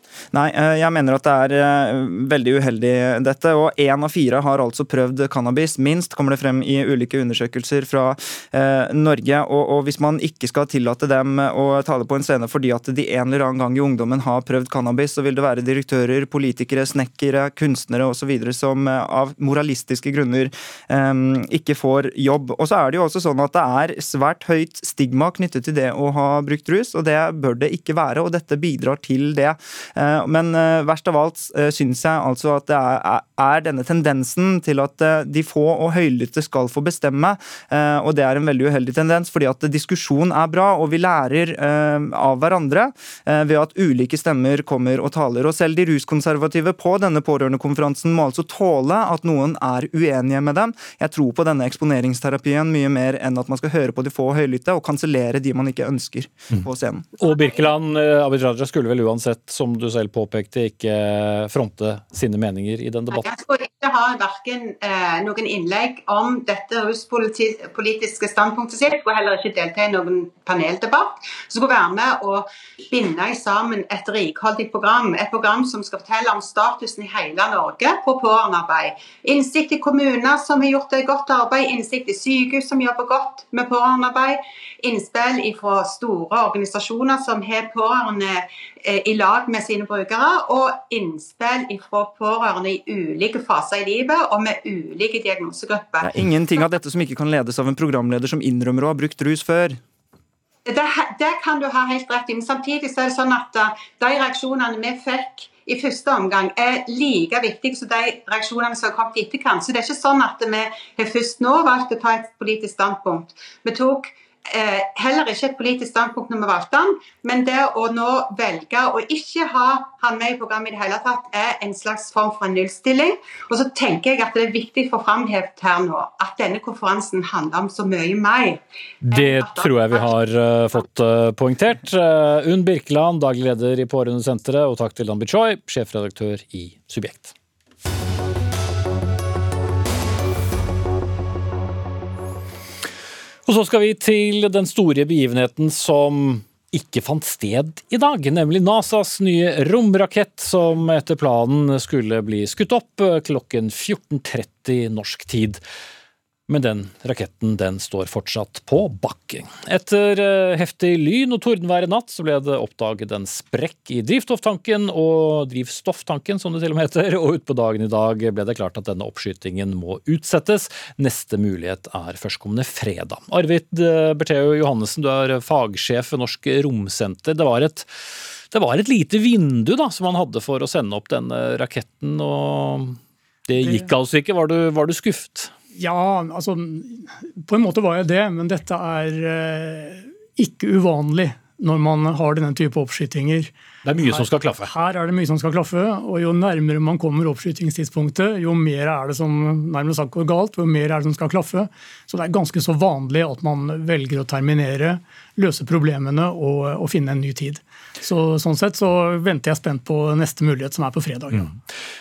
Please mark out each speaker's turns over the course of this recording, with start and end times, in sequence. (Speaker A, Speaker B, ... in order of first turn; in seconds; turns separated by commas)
Speaker A: 0.3-57.1, Speaker B: 57.2-63.4, Speaker C: 63.1-96.1, Speaker A: 96.0-99.8, Speaker C: 100.7-130.2, Speaker B: 129.0-137.3, Speaker B: 143.4-155.6, Speaker B: 156.5-177.9, Speaker B: 178.5-185.5, Speaker D: 183.5-183.9, Speaker D: 185.8-193.5, Speaker B: 193.8-194.7, Speaker D: 194.0-211.5, Speaker B: 211.3-211.6